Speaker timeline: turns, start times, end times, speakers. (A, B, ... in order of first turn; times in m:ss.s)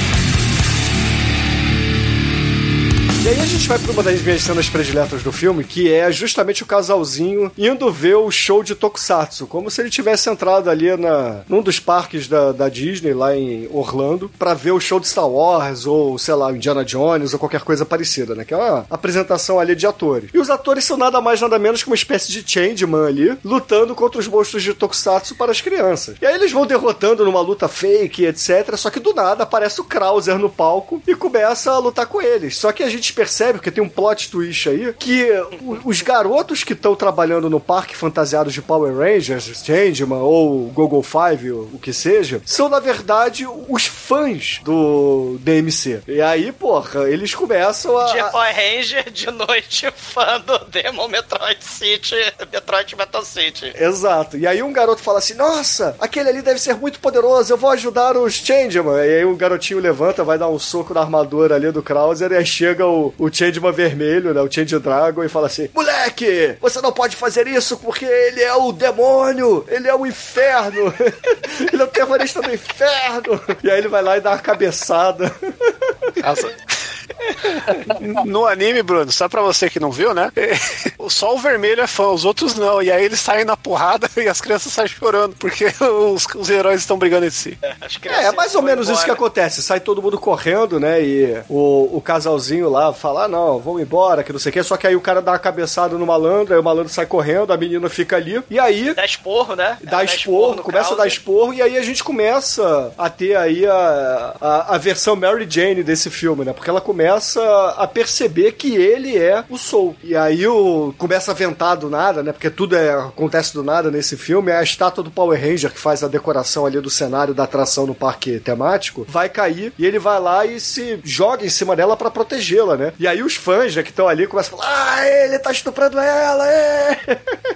0:03.2-0:48.4 A
0:48.0-0:53.7 B
0:53.7-1:16.1 A
1:16.2-1:16.6 C
1:17.8-1:27.6 C
1:27.6-1:29.2 B
1:28.1-1:39.0 A
1:39.0-1:41.2 B
1:39.8-2:07.2 A